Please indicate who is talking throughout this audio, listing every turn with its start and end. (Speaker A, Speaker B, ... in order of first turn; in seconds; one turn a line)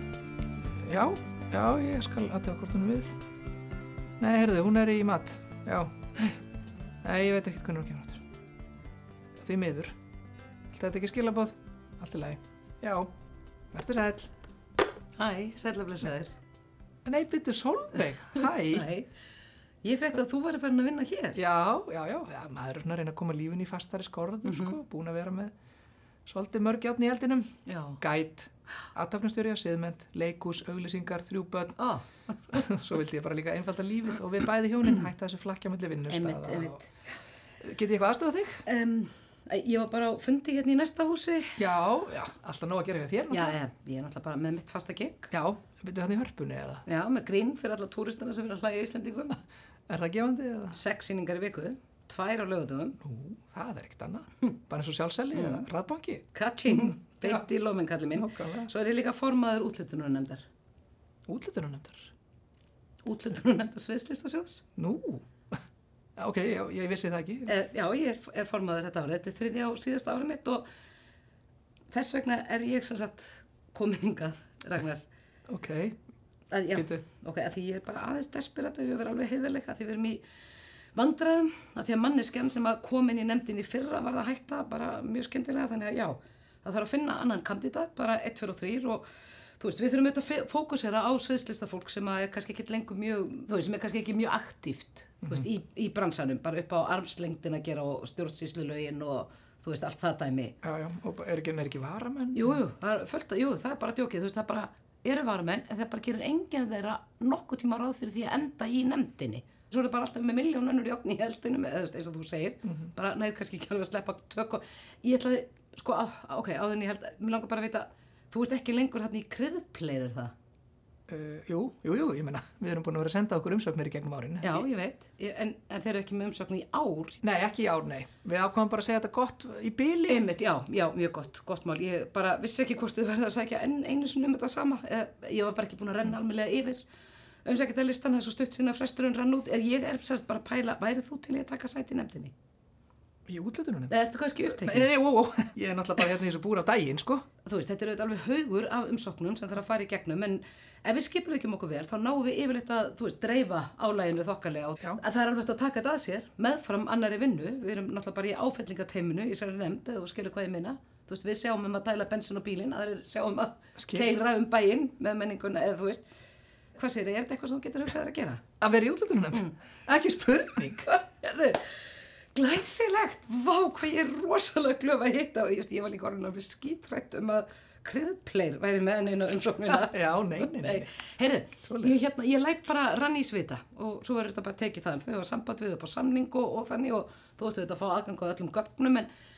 Speaker A: 0.8-3.2
Speaker A: 4.2-6.4
Speaker A: 7.0-8.2
Speaker A: 9.4-9.9
Speaker A: 10.7-13.1
Speaker A: 13.7-14.3
Speaker B: 15.2-16.3
Speaker A: 17.0-18.9
Speaker B: 18.7-19.1
Speaker B: 19.8-21.4
Speaker A: 21.4-25.5
Speaker B: 24.4-24.8
Speaker A: 26.3-31.8
Speaker B: 27.7-28.0
Speaker B: 31.8-32.1
Speaker A: 32.5-36.8
Speaker B: 36.1-36.9
Speaker A: 37.6-38.6
Speaker B: 38.6-41.5
Speaker A: 41.6-43.6
Speaker B: 43.3-45.3
Speaker A: 45.3-46.8
Speaker B: 46.9-49.4
Speaker A: 49.9-50.8
Speaker B: 50.7-53.0
Speaker A: 53.0-57.5
Speaker B: 55.3-55.6
Speaker B: 56.3-60.4
Speaker A: 58.1-58.7
Speaker A: 61.3-62.1
Speaker B: 63.0-64.6
Speaker A: 64.8-65.2
Speaker A: 66.2-67.5
Speaker B: 67.5-70.7
Speaker B: 71.9-75.0
Speaker A: 75.5-76.0
Speaker B: 76.5-80.2
Speaker A: 76.7-77.0
Speaker B: 80.9-89.0
Speaker B: 89.6-100.5
Speaker A: 100.6-102.6
Speaker B: 102.3-120.3
Speaker A: 112.6-112.9
Speaker A: 121.1-124.7
Speaker B: 124.4-127.2
Speaker A: 127.2-130.2
Speaker B: 130.1-136.8
Speaker B: 137.4-142.3
Speaker A: 143.3-147.2
Speaker B: 143.9-144.9
Speaker B: 147.4-166.0
Speaker A: 163.8-164.1
Speaker B: 166.7-168.4
Speaker A: 168.6-170.9
Speaker B: 170.9-171.8
Speaker B: 172.3-189.1
Speaker A: 179.7-180.9
Speaker A: 181.6-181.9